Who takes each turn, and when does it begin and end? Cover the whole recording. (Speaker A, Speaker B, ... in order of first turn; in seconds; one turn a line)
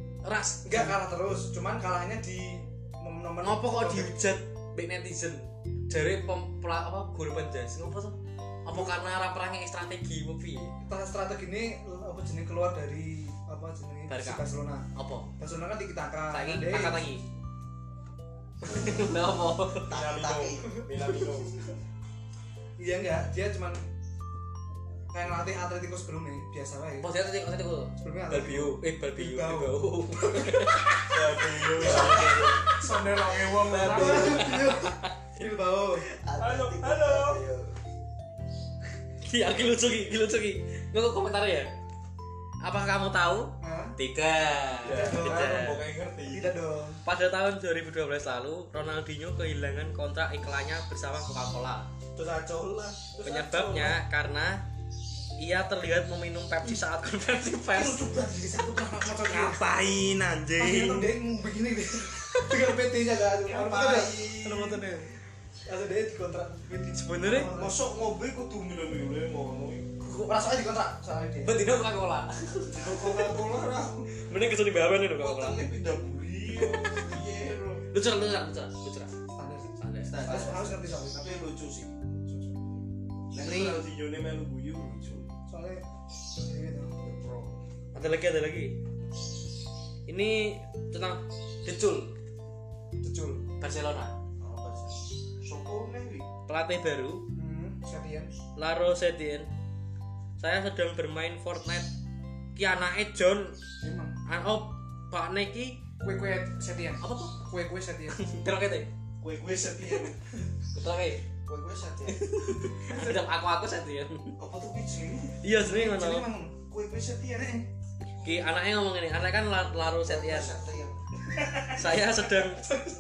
Speaker A: 0.2-1.0
Speaker B: 0.6-4.1
Speaker A: 3.4-10.7
Speaker B: 10.8-14.9
Speaker A: 14.1-15.3
Speaker B: 15.4-17.0
Speaker A: 16.3-17.2
Speaker A: 18.6-19.9
Speaker C: 19.9-20.8
Speaker D: 19.9-21.5
Speaker B: 20.7-21.2
Speaker B: 22.8-23.8
Speaker B: 25.1-27.1
Speaker A: 27.0-31.1
Speaker B: 28.0-30.7
Speaker D: 31.1-34.6
Speaker A: 31.7-32.8
Speaker C: 31.8-32.5
Speaker B: 32.6-36.0
Speaker A: 33.6-35.5
Speaker C: 36.1-37.7
Speaker D: 36.4-37.4
Speaker A: 39.2-41.7
Speaker D: 39.7-40.0
Speaker A: 42.6-45.8
Speaker B: 43.6-44.0
Speaker D: 44.8-46.5
Speaker B: 44.9-45.7
Speaker B: 46.3-47.0
Speaker A: 47.0-51.9
Speaker D: 52.1-53.9
Speaker A: 53.2-54.6
Speaker A: 55.4-58.0
Speaker B: 57.7-59.6
Speaker D: 59.2-61.2
Speaker B: 60.6-65.1
Speaker D: 63.4-64.9
Speaker B: 65.7-67.8
Speaker A: 67.0-67.5
Speaker D: 67.5-69.9
Speaker A: 70.0-70.4
Speaker B: 70.1-71.6
Speaker A: 71.4-73.0
Speaker D: 72.7-74.1
Speaker B: 72.9-73.5
Speaker A: 74.2-75.7
Speaker D: 74.9-77.8
Speaker A: 76.5-77.1
Speaker A: 77.9-79.1
Speaker B: 79.3-79.7
Speaker A: 79.8-80.2
Speaker D: 80.1-82.5
Speaker C: 80.2-80.8
Speaker B: 80.2-81.2
Speaker D: 83.3-85.4
Speaker A: 83.4-83.8
Speaker B: 83.5-83.7
Speaker B: 85.5-85.8
Speaker B: 86.3-86.9
Speaker D: 87.0-87.6
Speaker A: 87.9-88.8
Speaker A: 90.1-92.1
Speaker B: 93.0-93.4
Speaker A: 93.6-94.1
Speaker C: 94.4-95.1
Speaker D: 95.4-96.2
Speaker A: 96.5-97.2
Speaker B: 97.3-98.3
Speaker A: 98.5-99.5
Speaker A: 100.4-101.9
Speaker A: 102.5-103.6
Speaker B: 103.8-104.2
Speaker A: 104.2-105.8
Speaker B: 106.0-108.2
Speaker A: 107.0-107.4
Speaker A: 108.1-108.9
Speaker D: 109.2-110.2
Speaker A: 110.7-111.2
Speaker C: 111.5-112.3
Speaker A: 112.4-114.3
Speaker B: 112.9-113.2
Speaker D: 114.4-115.4
Speaker A: 115.4-116.2
Speaker B: 115.6-116.7
Speaker D: 116.7-117.5
Speaker B: 117.3-117.7
Speaker A: 118.2-120.5
Speaker C: 120.0-121.0
Speaker D: 121.3-122.6
Speaker A: 121.7-122.6